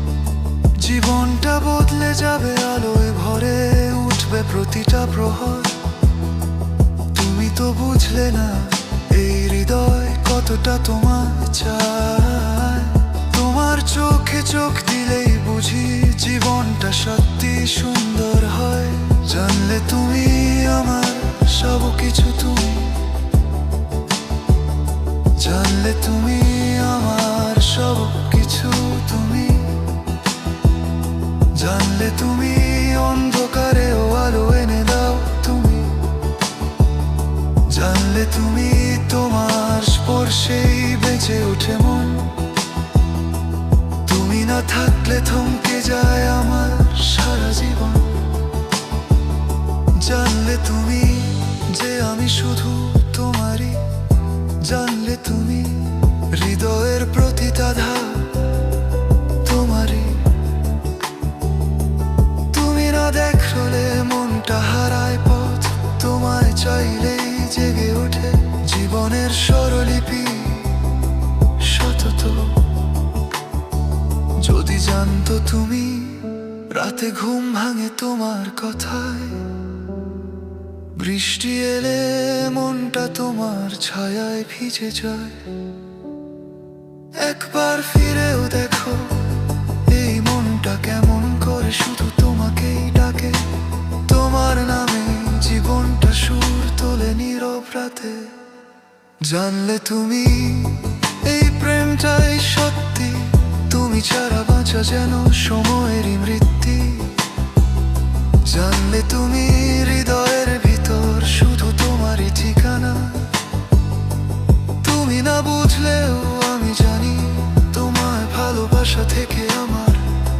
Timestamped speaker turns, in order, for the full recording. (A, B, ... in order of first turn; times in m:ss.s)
0:00.7-0:05.9 A
0:07.1-0:23.1 A
0:25.3-0:29.9 A
0:31.5-0:36.1 A
0:37.6-0:42.5 A
0:44.0-0:48.3 A
0:49.9-0:53.9 A
0:54.5-0:58.7 A
0:59.4-1:00.4 A
1:02.5-1:12.7 A
1:14.4-1:19.7 A
1:20.9-1:25.6 A
1:27.1-1:38.4 A
1:39.2-1:47.3 A
1:48.4-1:53.4 A
1:54.8-2:00.2 A